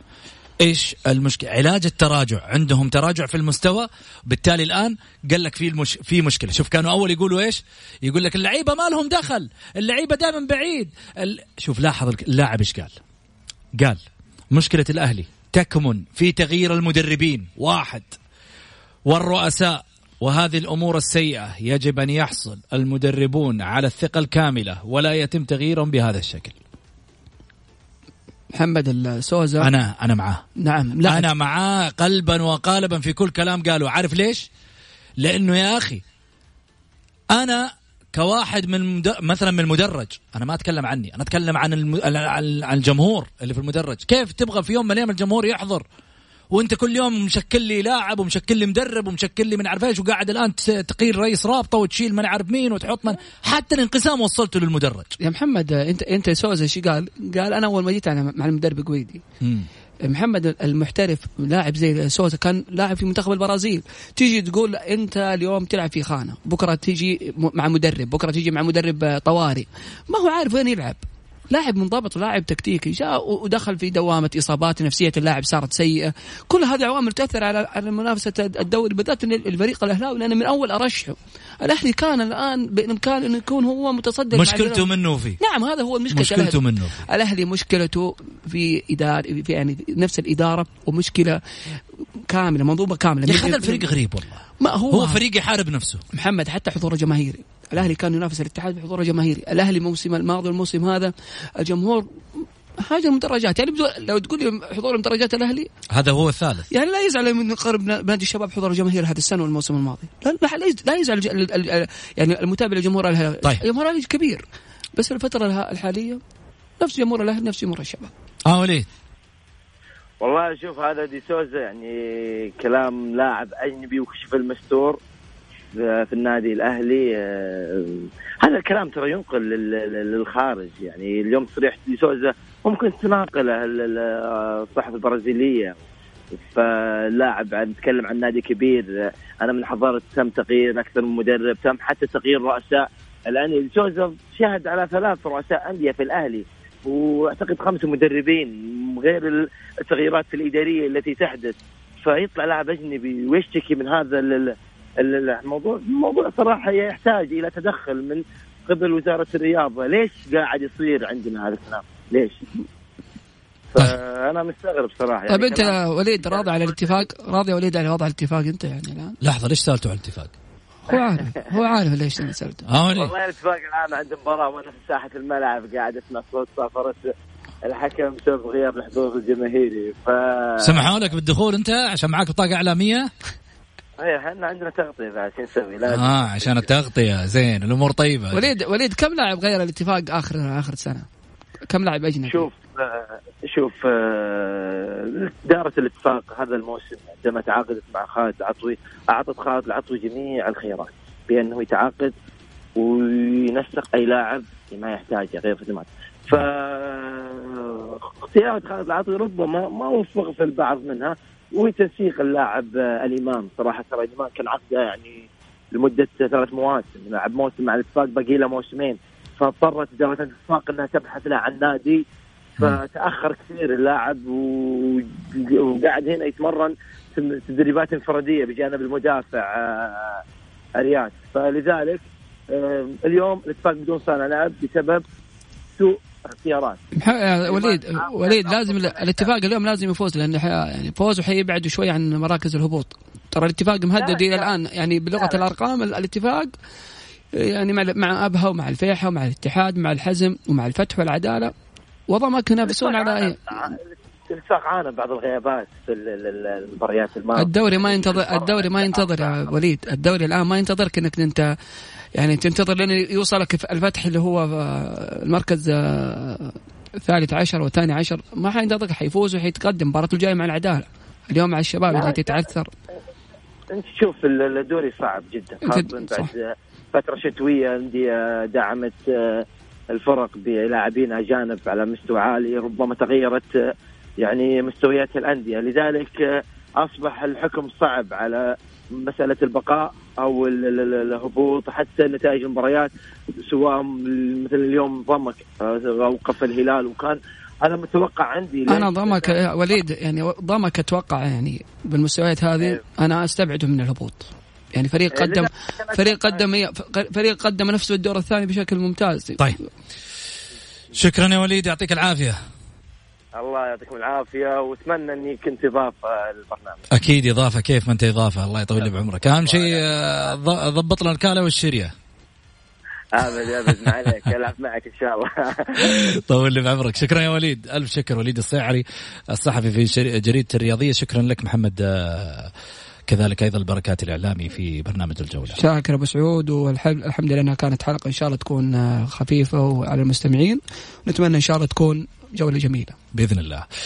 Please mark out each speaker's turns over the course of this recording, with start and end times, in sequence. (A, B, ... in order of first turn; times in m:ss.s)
0:00.6-0:13.0 A
0:14.5-0:18.2 A
0:19.0-0:26.6 A
0:28.5-0:29.7 B
0:29.6-0:30.4 A
0:30.6-0:31.3 B
0:31.0-0:34.5 A
0:35.2-0:36.0 A
0:37.3-0:45.8 A
0:46.5-0:55.1 A
0:55.2-0:59.2 B
0:59.4-0:59.7 A
1:00.0-1:24.9 B
1:24.3-1:25.4 A
1:25.4-1:33.8 B
1:26.1-1:27.0 A
1:33.3-1:36.0 A
1:34.6-1:35.2 B
1:36.1-1:45.7 B
1:45.9-1:46.7 A
1:46.7-1:54.4 B
1:55.0-1:56.2 B
1:56.8-1:58.1 B
1:58.4-1:58.9 A
2:00.2-2:05.0 C
2:05.7-2:15.8 C
2:16.4-2:42.4 C
2:43.7-2:47.0 C
2:45.3-2:49.2 B
2:49.2-2:50.3 A
2:50.9-2:52.6 B
2:52.7-2:53.1 A
2:53.0-2:57.1 C
2:57.6-3:00.8 C
3:00.6-3:03.1 A
3:04.0-3:06.6 C
3:05.8-3:08.5 A
3:08.3-3:11.1 B
3:11.7-3:12.5 B
3:12.2-3:22.1 C
3:22.8-3:42.0 C
3:42.6-3:50.2 C
3:50.8-3:55.0 C
3:55.8-3:59.3 C
3:57.0-4:06.5 B
4:04.0-4:04.5 C
4:05.1-4:05.4 C
4:07.4-4:11.5 B
4:12.1-4:13.7 B
4:12.7-4:19.5 C
4:17.3-4:21.5 B
4:22.1-4:32.7 B
4:31.9-4:32.5 C
4:33.7-4:43.6 C
4:35.6-4:36.3 B
4:44.2-4:52.9 C
4:53.4-4:59.4 C
4:58.7-5:09.4 B
5:05.1-5:06.4 C
5:10.9-5:12.4 A
5:13.3-5:16.9 C
5:16.9-5:21.9 A
5:19.3-5:19.8 C
5:23.1-5:26.0 C
5:23.6-5:23.9 A
5:25.8-5:32.5 A
5:33.1-5:35.6 A
5:35.5-5:43.0 B
5:43.1-5:43.6 A